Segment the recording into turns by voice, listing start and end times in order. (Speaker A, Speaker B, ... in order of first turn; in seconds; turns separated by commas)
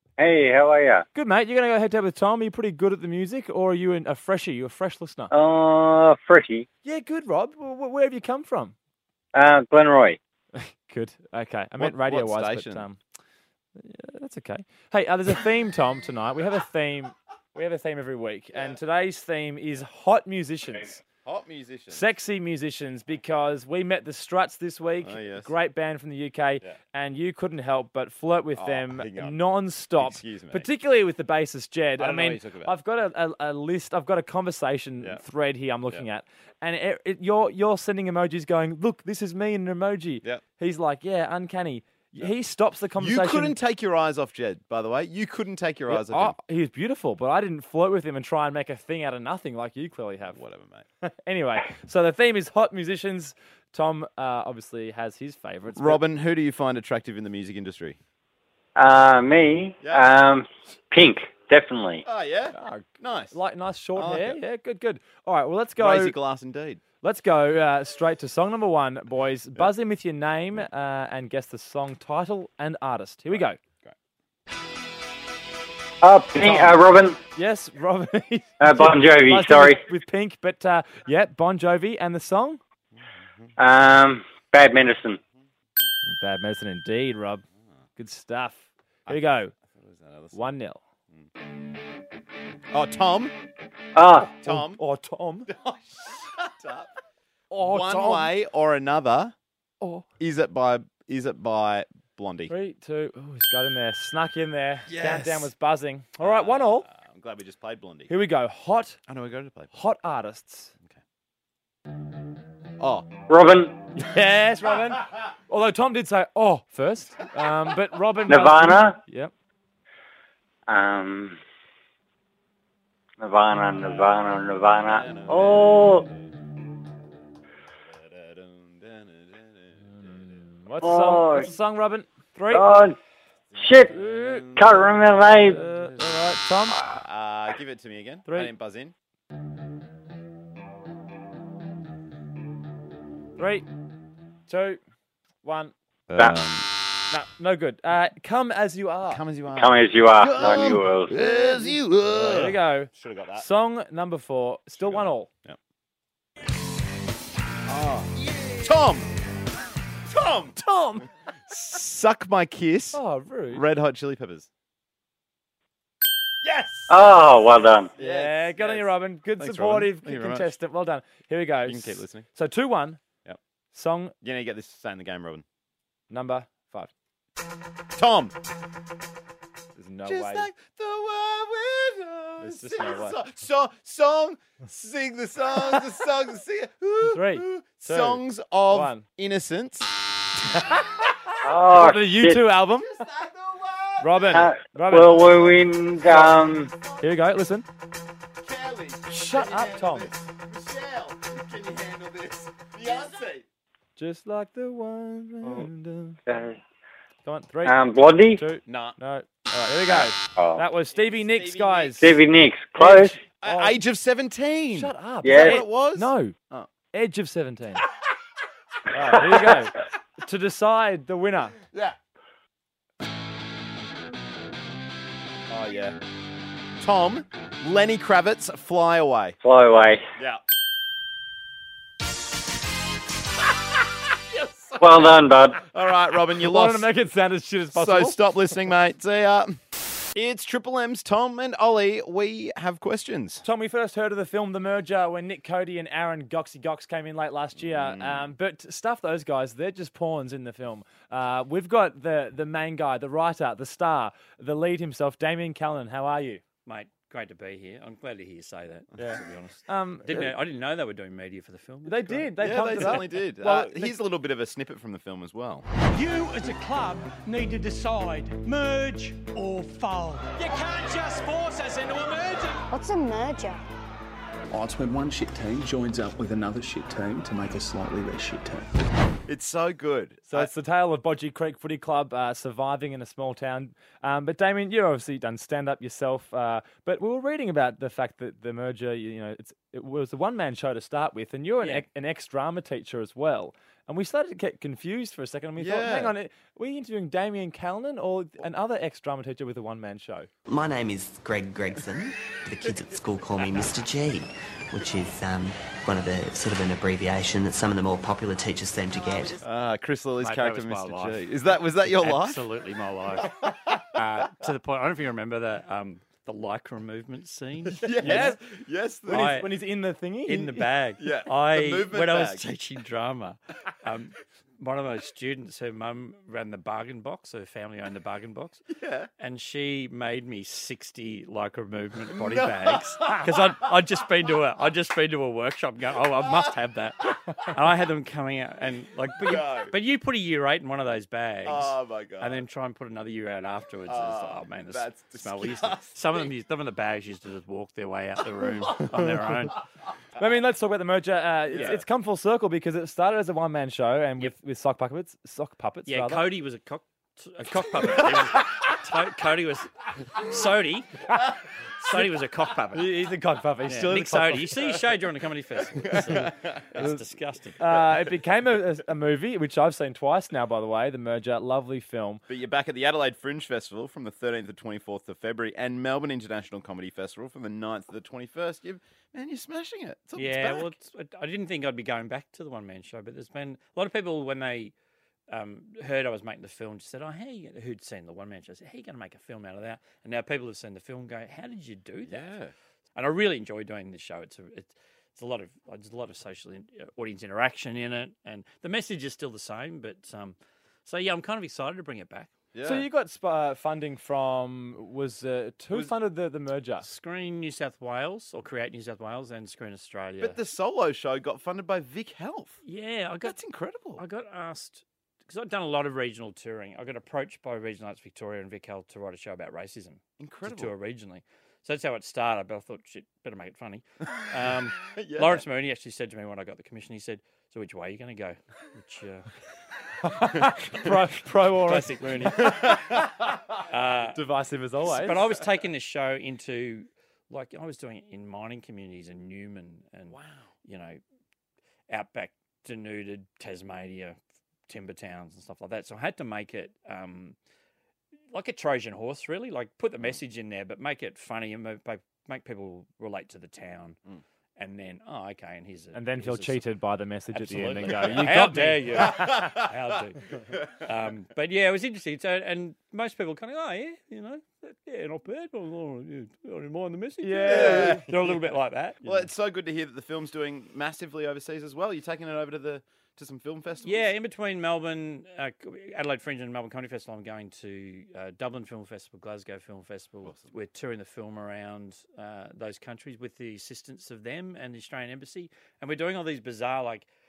Speaker A: 0.2-1.1, Speaker B: 1.1-5.3, Speaker A: 5.3-6.7, Speaker B: 6.8-8.7, Speaker A: 9.3-10.2, Speaker B: 10.5-13.0, Speaker C: 11.8-12.8, Speaker B: 13.8-21.0, Speaker C: 21.2-22.1, Speaker B: 21.9-43.5, Speaker C: 25.0-25.5, Speaker C: 28.6-29.4, Speaker C: 30.0-30.7, Speaker C: 32.0-32.7, Speaker C: 43.0-46.4, Speaker B: 45.9-50.4, Speaker C: 50.3-50.9, Speaker B: 51.0-56.0, Speaker C: 55.8-58.0, Speaker A: 58.8-62.0, Speaker C: 59.8-60.1, Speaker C: 62.0-63.3, Speaker B: 62.5-66.1, Speaker C: 64.0-64.4, Speaker C: 65.8-66.8, Speaker B: 67.0-73.6, Speaker C: 73.3-73.9, Speaker A: 76.0-77.2, Speaker B: 76.4-82.6, Speaker A: 78.6-79.8, Speaker C: 83.0-83.5, Speaker A: 83.6-85.2, Speaker B: 86.0-87.4, Speaker B: 88.0-89.5, Speaker C: 89.1-90.5, Speaker B: 90.3-90.8, Speaker C: 92.7-93.3, Speaker A: 94.0-94.3, Speaker B: 94.2-95.5, Speaker C: 94.3-94.8, Speaker C: 95.5-96.9, Speaker B: 97.5-98.3, Speaker C: 97.6-99.3, Speaker B: 99.8-100.0, Speaker C: 100.2-102.5, Speaker B: 102.5-106.8, Speaker C: 104.9-105.5, Speaker C: 106.2-108.1, Speaker B: 108.1-109.0, Speaker C: 109.1-109.7, Speaker B: 109.7-110.7, Speaker C: 112.8-113.2, Speaker A: 113.3-113.7, Speaker B: 113.9-119.3, Speaker A: 118.3-119.0, Speaker A: 120.7-121.4, Speaker A: 123.2-126.0, Speaker C: 124.8-126.1, Speaker C: 127.9-130.3, Speaker B: 129.8-132.7, Speaker A: 130.8-131.5, Speaker A: 132.5-132.9, Speaker C: 133.5-134.9, Speaker A: 133.6-133.9, Speaker B: 133.9-134.5, Speaker A: 134.6-135.6, Speaker B: 135.4-136.8, Speaker C: 135.7-136.0, Speaker C: 136.8-138.9, Speaker B: 143.4-143.7, Speaker B: 144.5-144.8, Speaker B: 145.4-145.7, Speaker C: 146.1-146.7, Speaker B: 147.1-149.2, Speaker C: 149.1-153.4, Speaker A: 149.6-151.1, Speaker B: 151.6-155.3, Speaker C: 154.8-155.6, Speaker C: 157.7-159.1, Speaker C: 160.1-160.6, Speaker B: 160.6-161.1, Speaker C: 161.5-163.0, Speaker B: 162.9-163.6, Speaker C: 163.5-164.5, Speaker C: 166.4-167.0, Speaker A: 166.9-167.9, Speaker C: 167.9-170.5, Speaker B: 168.0-173.0, Speaker C: 171.7-172.3, Speaker B: 173.7-174.1, Speaker C: 174.2-175.4, Speaker B: 176.1-176.9, Speaker C: 177.9-178.3, Speaker B: 179.8-180.5, Speaker C: 180.0-189.9, Speaker B: 182.4-183.2, Speaker B: 187.0-189.0, Speaker B: 190.5-191.1, Speaker A: 191.4-192.4, Speaker B: 191.7-193.0, Speaker C: 192.7-194.5, Speaker B: 194.0-195.6, Speaker A: 194.3-196.7, Speaker C: 196.0-197.0, Speaker B: 197.0-197.7, Speaker C: 198.4-203.4, Speaker B: 199.1-200.1, Speaker B: 204.0-206.2, Speaker A: 206.3-206.6, Speaker B: 207.2-207.8, Speaker A: 207.6-208.4, Speaker B: 208.3-212.2, Speaker C: 208.6-208.9, Speaker A: 210.3-210.6, Speaker C: 210.9-212.1, Speaker A: 212.0-213.2, Speaker C: 212.8-216.7, Speaker B: 213.4-213.8, Speaker B: 214.7-216.3, Speaker A: 215.2-215.5, Speaker B: 216.9-217.8, Speaker B: 218.9-221.6, Speaker C: 225.5-226.0, Speaker C: 226.8-229.4, Speaker A: 229.4-230.0, Speaker C: 234.3-236.9, Speaker A: 234.8-235.6, Speaker B: 236.4-238.2, Speaker C: 237.7-239.6, Speaker C: 240.1-243.4, Speaker B: 243.4-256.4, Speaker C: 247.6-248.3, Speaker D: 256.6-263.0, Speaker B: 259.0-260.3, Speaker B: 261.9-263.9, Speaker C: 262.4-265.6, Speaker E: 265.9-272.6, Speaker F: 272.7-273.6, Speaker F: 274.5-278.7, Speaker C: 279.3-280.5, Speaker B: 280.3-300.3, Speaker D: 291.6-291.9, Speaker C: 295.6-296.1, Speaker G: 300.5-309.4, Speaker C: 309.4-312.4, Speaker D: 310.2-311.3, Speaker D: 311.8-313.3, Speaker D: 313.9-318.3, Speaker C: 317.7-319.4, Speaker B: 318.0-318.4, Speaker B: 319.1-320.7, Speaker D: 319.1-319.5, Speaker D: 320.2-328.6, Speaker C: 321.0-322.4, Speaker C: 328.7-329.1, Speaker D: 329.2-349.6, Speaker C: 332.1-333.3, Speaker C: 339.2-339.7, Speaker C: 341.4-342.4, Speaker C: 343.9-346.3, Speaker B: 350.2-356.2, Speaker C: 351.5-351.8, Speaker D: 355.9-360.9, Speaker D: 361.8-362.9, Speaker B: 362.7-364.5, Speaker D: 363.7-367.6, Speaker C: 364.3-364.8, Speaker C: 365.8-366.9, Speaker B: 367.6-372.2, Speaker C: 372.3-380.8, Speaker D: 380.1-384.7, Speaker D: 385.3-392.3, Speaker C: 392.0-392.5, Speaker D: 392.9-402.3, Speaker C: 402.5-402.9, Speaker B: 402.6-406.9, Speaker D: 406.8-410.4, Speaker C: 410.2-412.6, Speaker D: 412.6-413.3, Speaker C: 413.2-414.0, Speaker D: 414.0-429.3, Speaker C: 420.2-420.7, Speaker C: 424.9-425.4, Speaker B: 430.0-432.5, Speaker D: 431.6-432.8, Speaker C: 432.4-433.1, Speaker D: 433.7-434.2, Speaker B: 434.1-435.2, Speaker D: 434.9-441.0, Speaker C: 440.1-440.5, Speaker D: 441.9-444.2, Speaker D: 444.7-447.4, Speaker D: 448.3-454.0, Speaker D: 454.6-456.6, Speaker B: 455.9-459.5, Speaker D: 457.3-460.2, Speaker C: 457.9-458.3, Speaker C: 458.9-459.7, Speaker D: 460.8-469.3, Speaker B: 467.2-468.1, Speaker C: 467.4-468.3, Speaker C: 469.0-474.1, Speaker D: 473.8-487.1, Speaker C: 480.2-480.5